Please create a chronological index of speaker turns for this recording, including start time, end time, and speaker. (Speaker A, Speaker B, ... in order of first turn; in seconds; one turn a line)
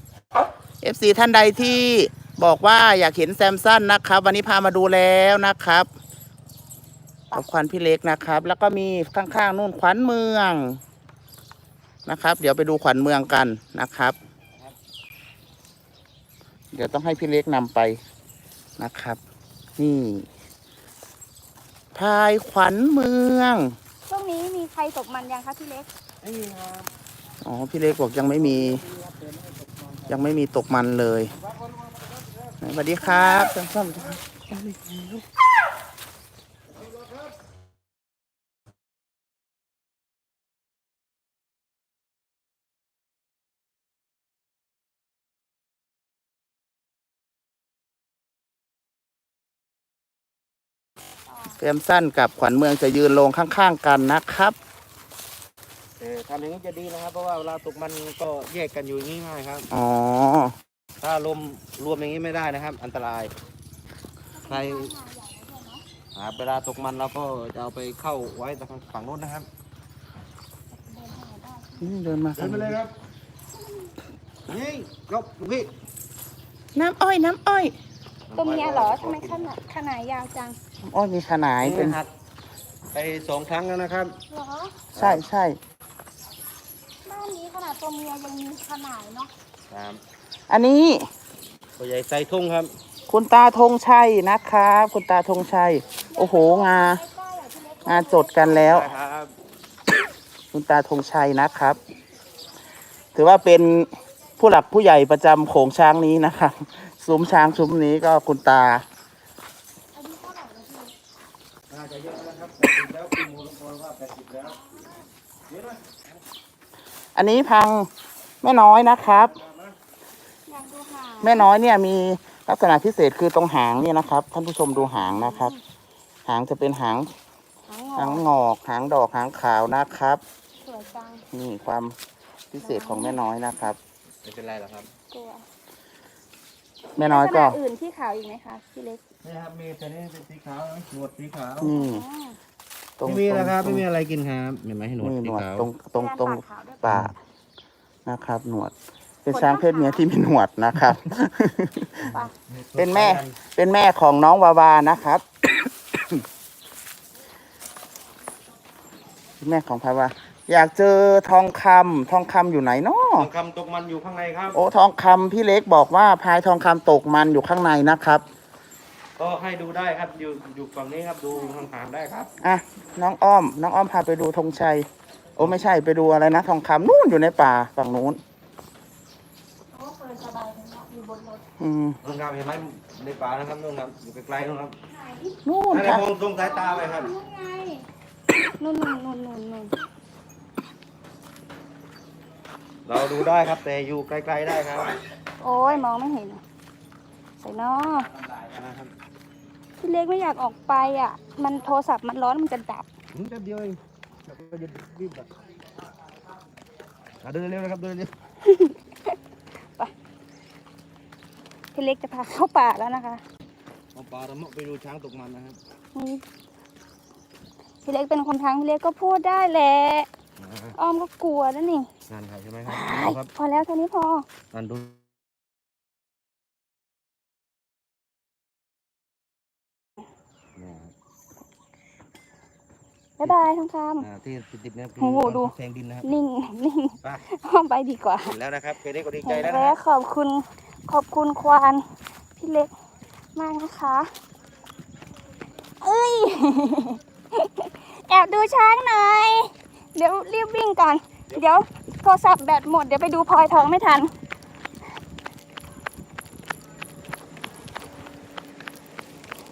Speaker A: 0.8-5.9
Speaker A: 7.3-10.8
Speaker A: 12.1-14.1
Speaker A: 16.7-18.0
Speaker A: 18.8-19.2
Speaker A: 19.8-20.3
Speaker A: 21.9-23.7
Speaker B: 24.1-25.9
Speaker C: 26.2-26.9
Speaker A: 27.4-28.8
Speaker C: 28.3-30.2
Speaker A: 30.1-31.3
Speaker A: 32.6-35.1
Speaker B: 33.1-33.5
Speaker A: 51.6-54.5
Speaker C: 56.0-59.7
Speaker A: 59.7-60.5
Speaker C: 61.0-63.3
Speaker B: 64.3-65.8
Speaker C: 64.5-64.9
Speaker C: 66.1-69.5
Speaker B: 70.7-71.9
Speaker A: 71.8-72.8
Speaker C: 72.3-72.9
Speaker C: 74.5-75.7
Speaker A: 76.7-77.8
Speaker C: 78.3-79.5
Speaker B: 78.3-80.6
Speaker A: 80.9-82.0
Speaker C: 81.6-82.1
Speaker C: 82.9-84.2
Speaker B: 84.3-84.8
Speaker C: 84.9-85.2
Speaker A: 84.9-85.6
Speaker B: 87.0-89.3
Speaker C: 89.7-90.0
Speaker A: 90.5-91.1
Speaker C: 91.8-92.7
Speaker A: 93.1-97.0
Speaker B: 96.1-98.7
Speaker A: 97.8-98.9
Speaker C: 98.5-99.3
Speaker A: 100.5-101.8
Speaker A: 103.1-108.8
Speaker B: 109.9-110.9
Speaker C: 111.7-114.6
Speaker B: 114.4-115.0
Speaker C: 115.5-116.0
Speaker A: 117.2-117.9
Speaker A: 118.4-119.3
Speaker C: 119.2-119.7
Speaker B: 120.5-121.4
Speaker A: 121.2-125.5
Speaker B: 124.9-125.6
Speaker A: 126.2-127.1
Speaker B: 127.7-128.2
Speaker A: 128.0-130.2
Speaker B: 130.6-131.2
Speaker A: 131.3-131.9
Speaker A: 132.5-133.8
Speaker B: 132.6-133.2
Speaker C: 134.2-134.9
Speaker B: 135.1-135.4
Speaker A: 137.0-137.6
Speaker B: 137.0-139.0
Speaker C: 139.2-141.7
Speaker A: 141.6-142.0
Speaker B: 141.7-142.4
Speaker A: 143.0-143.8
Speaker C: 143.0-145.7
Speaker A: 145.0-147.1
Speaker B: 145.9-146.9
Speaker A: 148.1-148.7
Speaker A: 149.2-152.1
Speaker B: 149.3-150.1
Speaker B: 152.1-152.3
Speaker C: 152.1-153.4
Speaker A: 152.7-156.2
Speaker A: 159.4-163.3
Speaker C: 163.2-164.6
Speaker A: 164.5-168.2
Speaker C: 169.2-172.3
Speaker B: 171.3-171.6
Speaker A: 172.4-178.2
Speaker B: 179.7-181.4
Speaker A: 181.6-182.0
Speaker C: 182.0-184.8
Speaker B: 184.9-185.3
Speaker A: 185.4-186.1
Speaker C: 185.7-187.1
Speaker B: 186.3-187.8
Speaker B: 188.6-189.7
Speaker C: 192.8-195.0
Speaker B: 195.4-196.4
Speaker B: 197.4-198.1
Speaker C: 198.3-198.9
Speaker B: 199.8-202.9
Speaker C: 203.1-205.3
Speaker C: 207.2-208.1
Speaker B: 208.4-208.8
Speaker B: 211.7-213.2
Speaker C: 213.9-215.6
Speaker B: 215.9-216.2
Speaker B: 217.8-220.1
Speaker C: 220.4-220.8
Speaker B: 220.7-221.9
Speaker C: 222.1-223.3
Speaker B: 222.7-224.2
Speaker C: 224.5-225.0
Speaker C: 230.6-230.9
Speaker B: 233.2-234.1
Speaker C: 234.0-236.1
Speaker B: 235.0-235.5
Speaker B: 236.0-238.3
Speaker C: 238.2-239.8
Speaker B: 239.2-241.8
Speaker B: 242.4-242.7
Speaker B: 243.3-244.1
Speaker B: 245.8-254.1